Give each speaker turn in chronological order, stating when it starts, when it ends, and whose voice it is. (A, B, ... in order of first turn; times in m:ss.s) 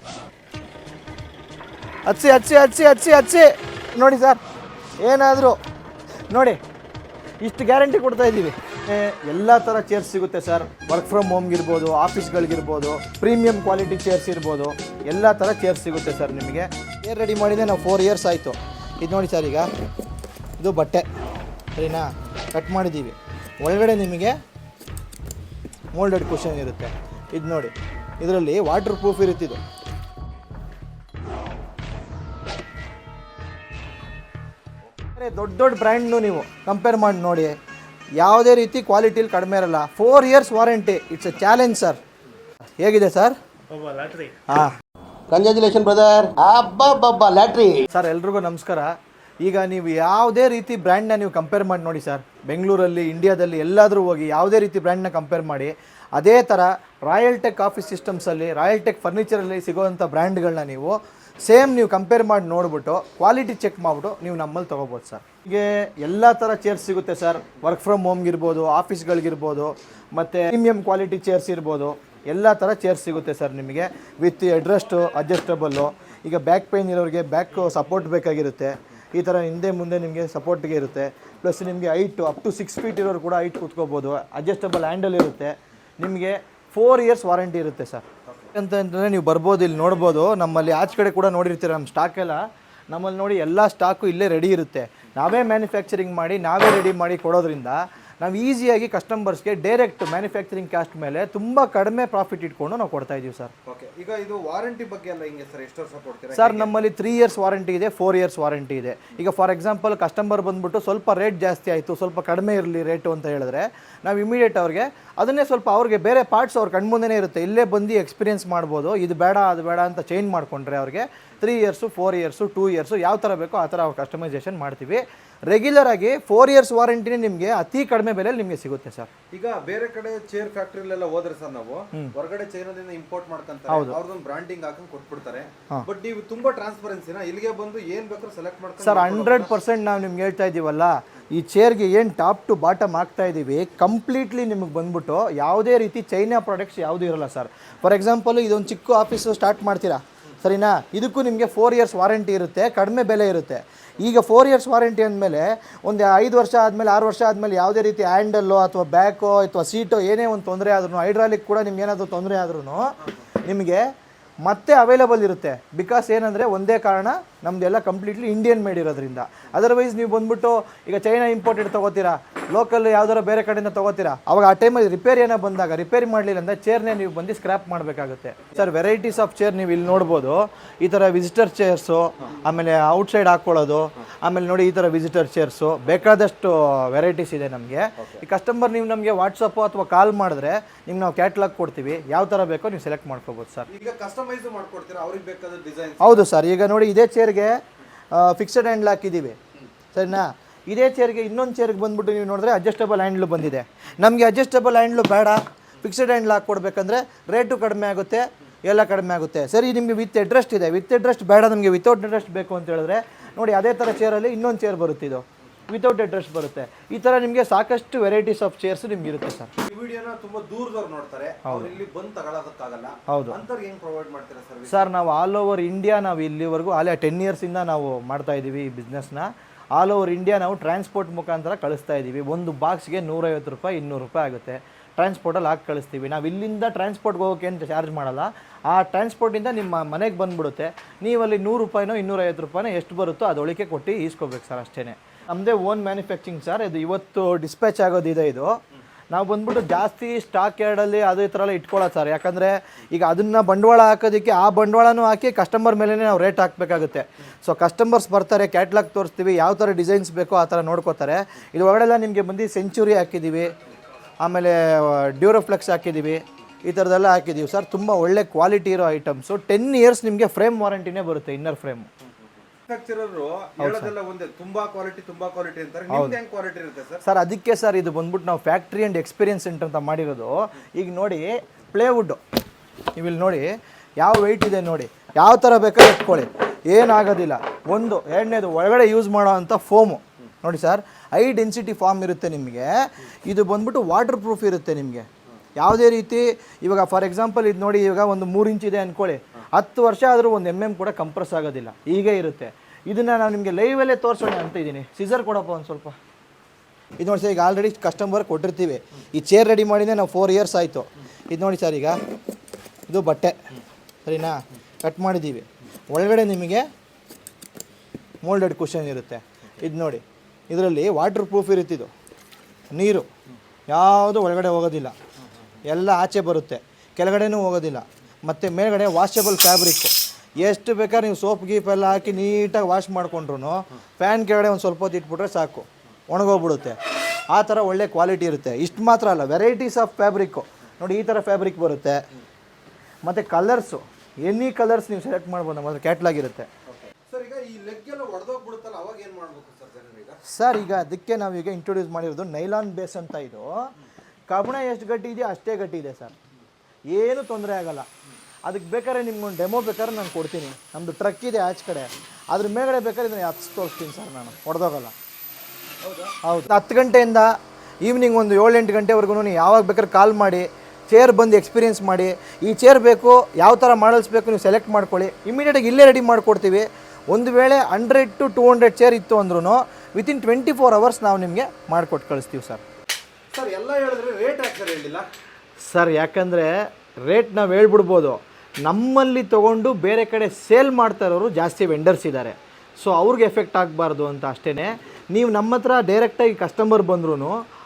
0:02.0-0:04.4 A
0:05.0-0:05.6 A
0:06.3-0:06.6 A
0:07.4-0:19.7 A
0:20.6-0:21.0 A
0:21.7-0:24.4 A
0:25.9-0:29.6 A
0:35.1-0:37.5 A
0:38.2-0:42.0 A
0:42.8-0:43.4 A
0:44.5-0:44.7 A
0:45.3-0:47.8 B
0:47.9-1:43.5 A
1:43.6-1:46.8 C
1:46.3-2:09.1 A
2:09.3-2:19.5 C
2:13.7-2:14.0 A
2:18.8-2:43.8 A
2:44.4-3:13.7 A
3:13.7-3:16.3 C
3:16.0-3:17.6 A
3:18.1-3:19.4 A
3:19.9-3:39.5 A
3:39.6-3:44.9 C
3:41.4-3:41.7 A
3:43.1-3:43.4 A
3:44.7-4:08.6 A
4:09.1-4:23.5 A
4:24.2-4:31.9 A
4:32.7-4:37.0 C
4:33.6-4:33.9 A
4:35.9-4:36.2 A
4:37.0-4:42.2 A
4:43.0-5:06.0 A
5:07.0-5:12.0 A
5:12.9-5:13.4 A
5:14.0-5:16.7 A
5:18.2-5:21.9 A
5:22.7-5:23.1 A
5:23.7-5:24.9 A
5:25.7-5:42.0 A
5:43.0-5:46.5 A
5:46.7-5:50.2 C
5:50.2-5:53.7 A
5:54.3-5:56.1 A
5:56.9-5:57.9 A
5:58.4-6:04.9 A
6:05.8-6:06.2 C
6:06.2-6:22.6 A
6:23.3-6:25.1 C
6:25.6-6:37.4 A